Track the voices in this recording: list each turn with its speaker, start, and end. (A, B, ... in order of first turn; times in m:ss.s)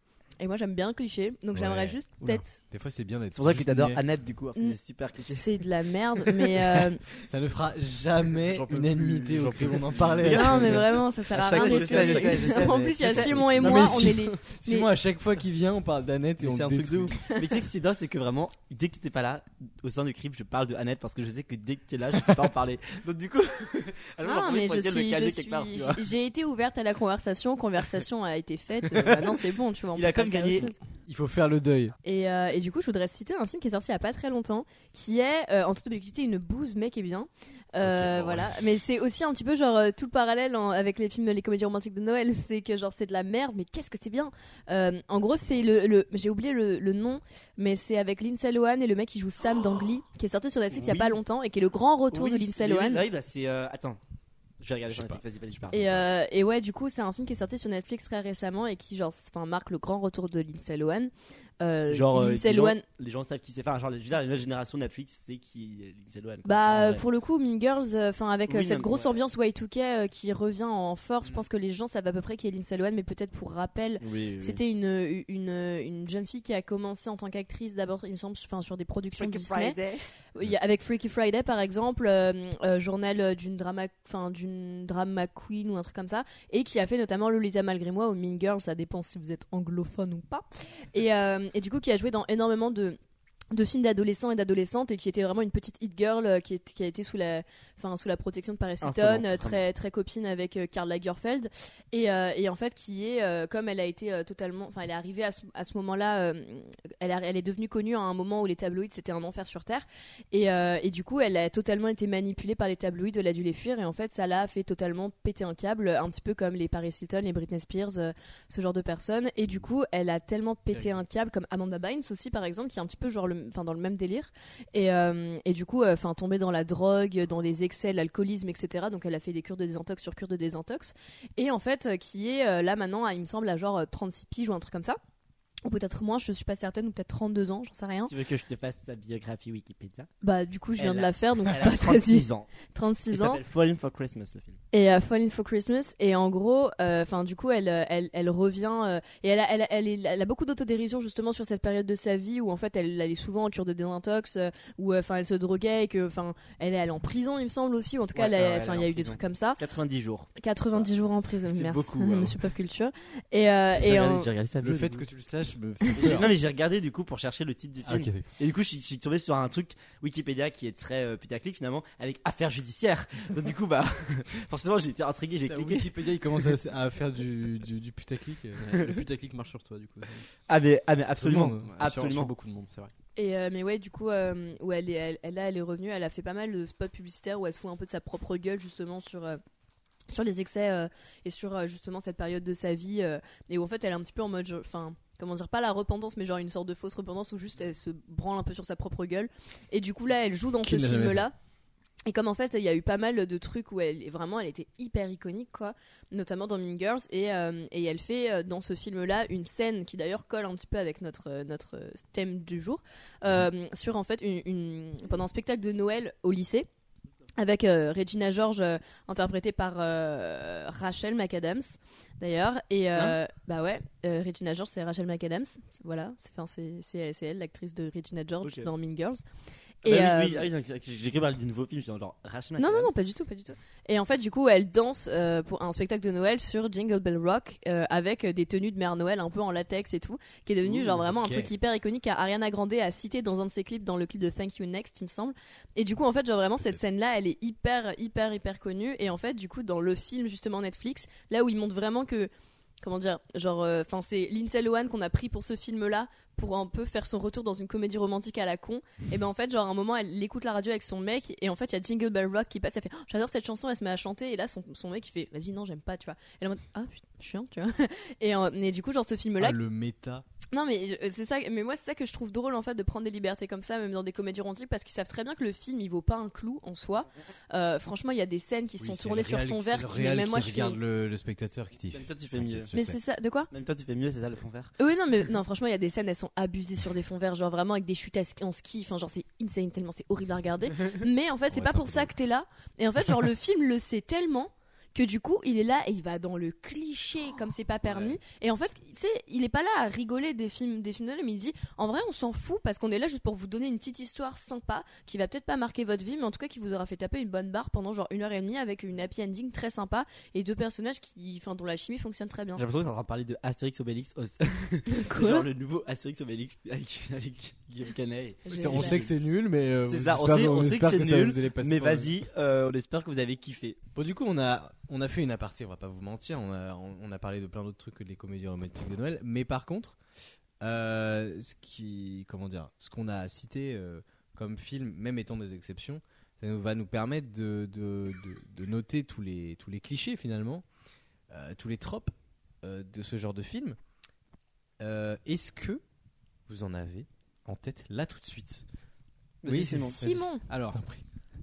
0:00.4-0:02.6 A
0:01.5-0:04.0 B
0:03.3-0:05.5 C
0:04.6-0:07.0 A
0:06.3-0:06.8 C
0:07.2-0:10.8 B
0:08.4-0:10.5 D
0:10.2-0:14.0 C
0:10.2-0:14.9 A
0:11.5-0:12.4 B
0:13.0-0:17.2 B
0:16.4-0:17.1 D
0:17.3-0:26.0 C
0:24.2-0:30.8 A
0:29.9-0:30.7 C
0:31.1-0:32.0 B
0:32.0-0:53.0 A
0:37.8-0:38.5 B
0:50.7-0:51.2 C
0:52.1-0:54.0 C
0:54.6-0:56.0 C
0:54.9-0:55.2 B
0:55.7-1:02.8 A
1:01.9-1:07.0 C
1:06.4-1:19.8 A
1:08.5-1:09.2 C
1:14.0-1:14.6 C
1:19.2-1:20.0 C
1:20.3-1:33.0 A
1:33.5-2:15.0 A
1:38.8-1:39.6 C
2:15.6-2:18.1 A
2:18.1-2:20.1 C
2:20.2-2:23.4 A
2:20.8-2:22.5 C
2:23.1-2:24.6 C
2:24.7-2:39.6 A
2:38.1-2:40.9 C
2:40.4-2:44.3 A
2:41.5-2:42.4 C
2:43.8-2:45.1 C
2:44.6-2:46.3 B
2:45.9-2:55.9 C
2:47.8-2:48.3 B
2:55.4-2:58.7 B
2:58.6-3:00.3 D
3:00.5-3:02.3 C
3:01.2-3:01.8 B
3:01.6-3:02.9 D
3:03.2-3:09.4 A
3:10.1-3:21.3 A
3:20.6-3:21.3 B
3:22.0-3:36.7 A
3:37.4-3:49.2 A
3:48.4-3:48.7 C
3:49.8-3:50.5 A
3:49.8-3:52.9 C
3:52.6-4:12.3 A
4:00.9-4:01.5 B
4:12.8-4:29.6 A
4:29.4-4:30.2 B
4:30.5-4:40.8 A
4:38.8-4:43.0 B
4:41.9-4:42.7 C
4:42.7-4:43.5 A
4:43.5-4:44.7 C
4:44.8-5:12.6 A
4:51.5-4:52.1 B
4:57.8-4:58.2 B
5:12.6-5:19.2 C
5:14.9-5:15.5 A
5:18.4-5:19.0 A
5:18.5-5:22.1 B
5:19.8-5:23.8 C
5:23.9-5:30.0 B
5:30.6-5:40.6 B
5:41.3-5:43.8 B
5:44.8-5:45.8 B
5:46.5-5:48.6 B
5:49.4-5:50.0 C
5:49.4-5:51.0 B
5:50.0-5:50.4 A
5:50.4-5:50.9 D